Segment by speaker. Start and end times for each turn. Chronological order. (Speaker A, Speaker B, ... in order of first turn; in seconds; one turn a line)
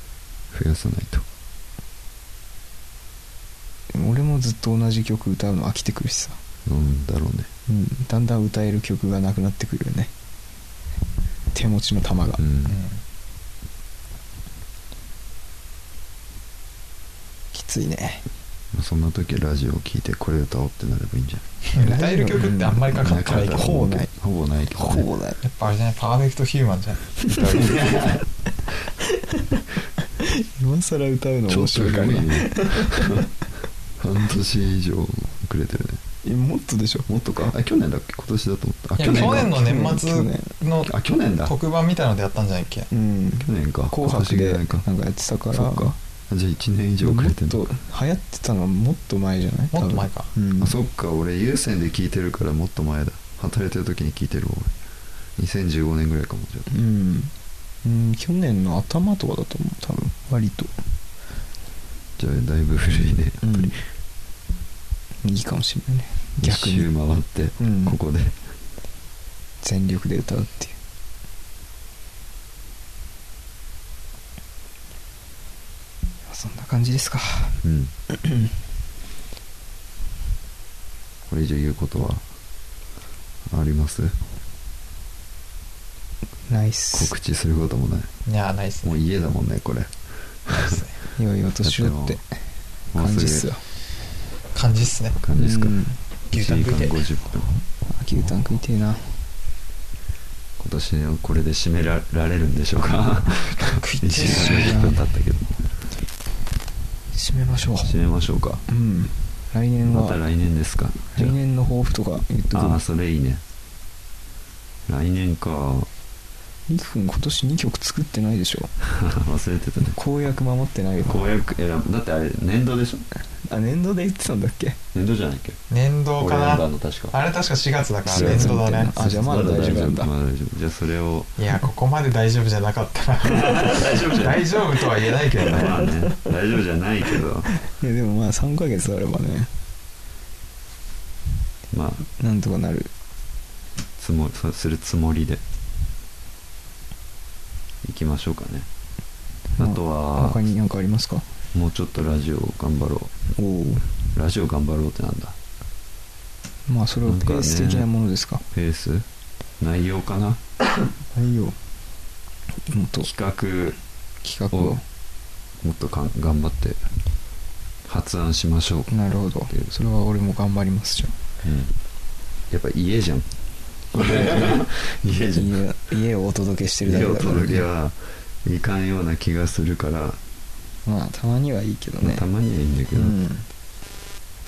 Speaker A: 0.5-1.3
Speaker B: 3.9-6.4
Speaker A: 6.7-7.5
Speaker B: 7.7-10.1
Speaker B: 11.5-12.4
Speaker A: 12.4-12.8
Speaker C: 12.7-13.0
Speaker B: 17.5-18.2
Speaker A: 18.7-21.4
Speaker C: 21.7-23.9
Speaker B: 21.8-24.1
Speaker A: 22.9-25.1
Speaker B: 24.7-25.4
Speaker C: 25.4-27.8
Speaker A: 27.3-28.3
Speaker B: 29.0-29.6
Speaker B: 30.2-33.3
Speaker A: 31.5-33.3
Speaker A: 34.0-36.0
Speaker B: 36.2-37.1
Speaker A: 37.1-39.6
Speaker C: 39.0-40.9
Speaker B: 39.1-40.5
Speaker A: 40.9-41.5
Speaker C: 41.5-42.9
Speaker B: 42.9-46.0
Speaker A: 43.4-44.9
Speaker A: 45.5-47.7
Speaker B: 47.0-50.7
Speaker C: 49.7-50.3
Speaker A: 50.6-54.7
Speaker A: 55.4-56.7
Speaker B: 56.7-57.3
Speaker B: 57.8-60.7
Speaker A: 62.2-63.8
Speaker B: 63.4-63.8
Speaker B: 65.2-66.9
Speaker A: 66.4-68.4
Speaker B: 67.6-68.0
Speaker B: 69.6-70.8
Speaker B: 76.3-77.6
Speaker A: 77.6-77.9
Speaker B: 78.1-78.5
Speaker A: 81.3-82.2
Speaker A: 83.5-84.2
Speaker B: 86.5-87.1
Speaker A: 86.9-88.1
Speaker C: 88.3-89.0
Speaker A: 88.8-89.9
Speaker A: 90.5-90.8
Speaker C: 90.5-91.0
Speaker B: 91.2-92.2
Speaker A: 91.6-92.2
Speaker A: 92.9-93.5
Speaker B: 93.0-93.6
Speaker C: 94.5-95.2
Speaker A: 95.2-95.8
Speaker B: 95.3-96.0
Speaker C: 96.3-97.0
Speaker A: 96.3-97.5
Speaker B: 97.9-99.1
Speaker A: 100.6-105.6
Speaker C: 103.6-104.8
Speaker B: 104.2-105.0
Speaker B: 107.1-108.0
Speaker A: 107.8-108.6
Speaker B: 108.7-110.2
Speaker A: 109.9-111.4
Speaker B: 111.1-112.8
Speaker A: 112.5-113.4
Speaker A: 114.9-115.9
Speaker B: 116.7-118.7
Speaker A: 118.8-120.0
Speaker B: 119.8-121.2
Speaker A: 121.1-123.0
Speaker B: 123.5-124.8
Speaker A: 124.9-125.6
Speaker C: 125.7-128.9
Speaker A: 126.2-127.2
Speaker B: 128.1-130.1
Speaker A: 128.1-131.3
Speaker C: 131.4-135.9
Speaker A: 133.2-134.8
Speaker A: 135.4-137.5
Speaker B: 135.7-136.2
Speaker B: 137.5-139.5
Speaker A: 141.7-142.1
Speaker B: 142.2-142.9
Speaker A: 144.0-145.4
Speaker A: 147.8-148.7
Speaker B: 149.6-151.3
Speaker A: 149.6-150.4
Speaker A: 151.5-153.2
Speaker B: 153.3-153.8
Speaker A: 154.1-155.4
Speaker B: 156.7-158.4
Speaker A: 157.1-157.9
Speaker A: 158.5-159.1
Speaker A: 159.6-160.4
Speaker B: 161.2-161.6
Speaker B: 162.7-163.1
Speaker A: 163.0-163.8
Speaker B: 164.2-164.8
Speaker A: 165.6-166.8
Speaker A: 167.8-168.9
Speaker B: 168.9-171.1
Speaker A: 169.5-169.8
Speaker A: 171.4-171.8
Speaker A: 172.5-173.3
Speaker A: 173.9-175.6
Speaker B: 175.3-177.7
Speaker A: 176.8-180.2
Speaker B: 180.9-182.3
Speaker A: 182.0-183.2
Speaker B: 182.9-183.5